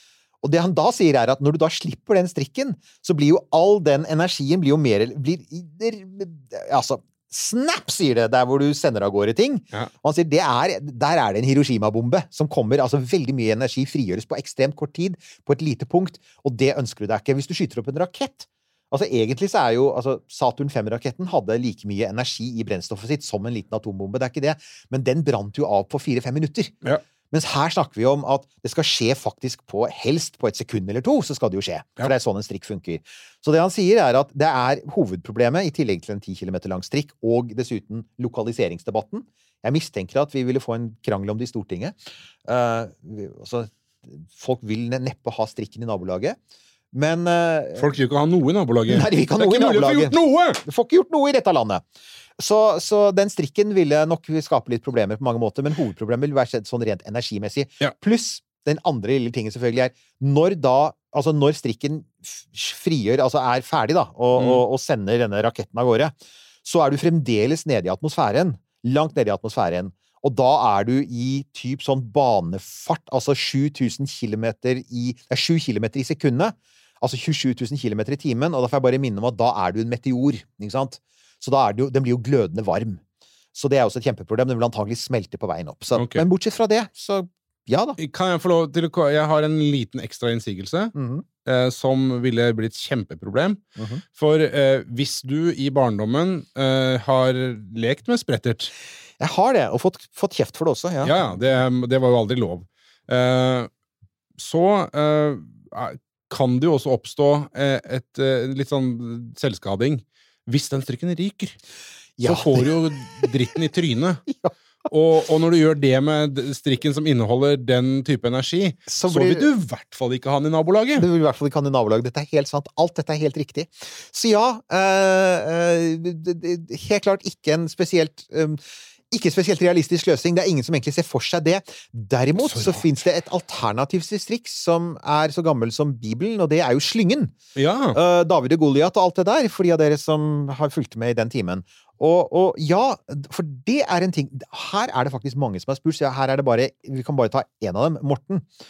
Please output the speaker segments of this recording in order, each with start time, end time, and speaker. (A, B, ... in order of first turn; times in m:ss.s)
0:00.4-0:26.7 A
0:27.3-0:46.4 A
0:46.9-0:47.9 A
0:47.8-0:50.6 B
0:48.9-0:51.8 A
0:52.4-1:23.0 A
1:04.4-1:04.6 B
1:23.5-1:28.0 A
1:26.0-1:26.2 B
1:28.0-1:30.9 B
1:30.9-1:31.2 A
1:31.4-1:33.6 B
1:33.8-1:34.0 A
1:34.1-1:38.7 B
1:39.2-1:41.2 A
1:41.0-1:43.7 B
1:44.4-1:51.6 B
1:52.2-1:53.2 A
1:52.2-1:54.2 B
1:54.9-2:01.1 B
1:58.9-1:59.5 A
2:01.0-2:17.4 A
2:12.4-2:12.8 B
2:17.6-2:18.0 B
2:17.9-2:28.5 A